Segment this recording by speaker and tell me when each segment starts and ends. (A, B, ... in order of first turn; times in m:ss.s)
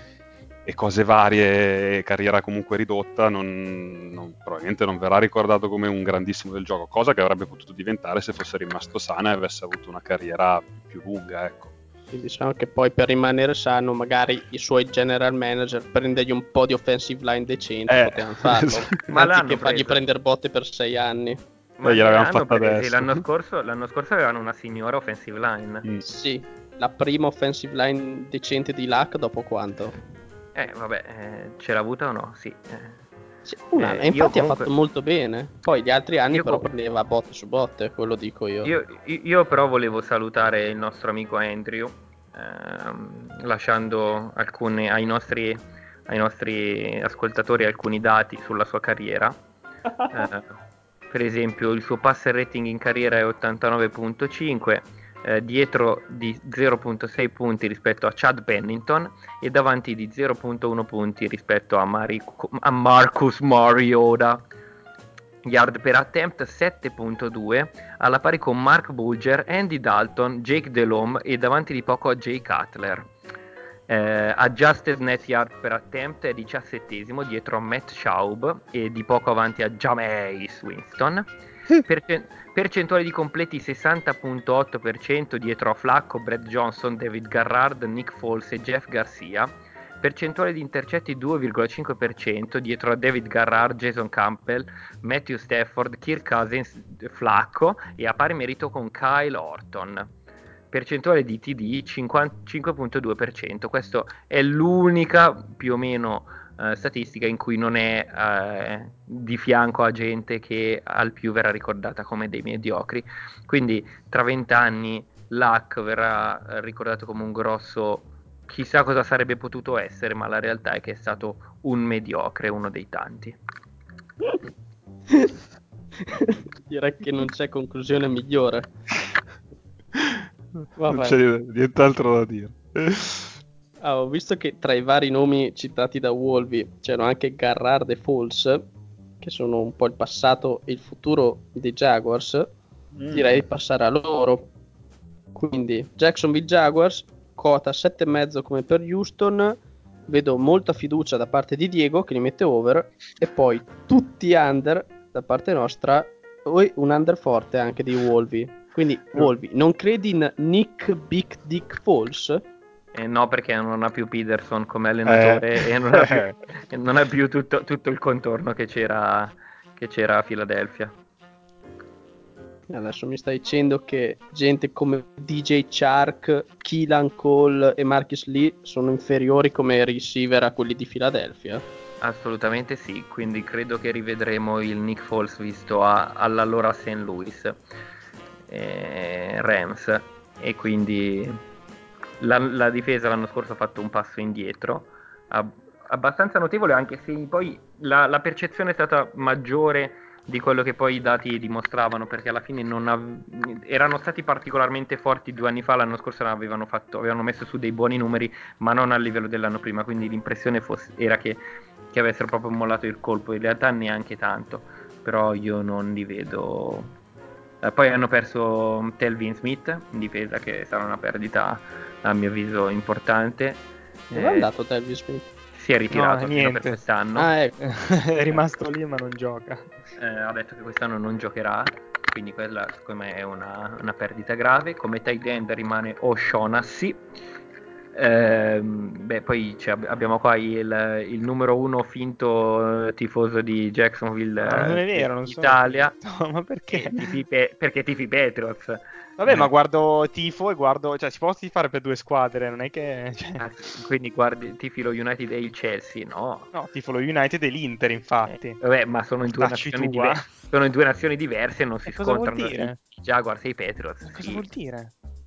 0:00.6-0:11.7 A
0:12.1-0:21.4 B
0:17.9-0:19.0 A
0:19.1-0:20.0 C
0:21.8-0:25.8 C
0:21.8-0:23.2 A
0:26.0-0:29.9 B
0:30.5-0:33.0 C
0:33.4-0:38.7 B
0:33.8-0:34.7 C
0:36.3-0:36.7 C
0:38.6-0:49.4 C
0:50.1-0:50.5 C
0:51.1-1:04.4 C
1:05.4-1:13.1 C
1:13.9-1:40.1 C
1:40.7-2:03.4 C
2:06.0-2:08.7 B
2:09.9-2:10.2 A
2:10.8-2:11.2 B
2:10.9-2:13.3 A
2:13.8-2:18.6 B
2:19.2-2:22.5 B
2:23.0-2:23.4 A
2:23.1-2:24.5 B
2:25.3-2:42.4 B
2:42.9-2:50.9 C
2:45.0-2:46.3 A
2:52.7-3:01.6 B
3:02.0-3:07.6 C
3:08.5-3:11.4 C
3:12.2-3:36.9 C
3:37.6-3:44.5 C
3:44.1-3:45.3 B
3:45.5-3:47.3 C
3:45.9-3:46.8 D
3:47.2-3:47.5 B
3:47.6-3:49.7 D
3:50.0-3:57.0 C
3:57.9-4:05.9 C
4:04.4-4:07.2 D
4:06.7-4:09.4 C
4:09.2-4:13.4 D
4:13.4-4:16.5 C
4:16.5-4:18.6 D
4:18.6-4:24.4 C
4:19.3-4:20.2 D
4:21.8-4:22.8 D
4:24.0-4:24.9 D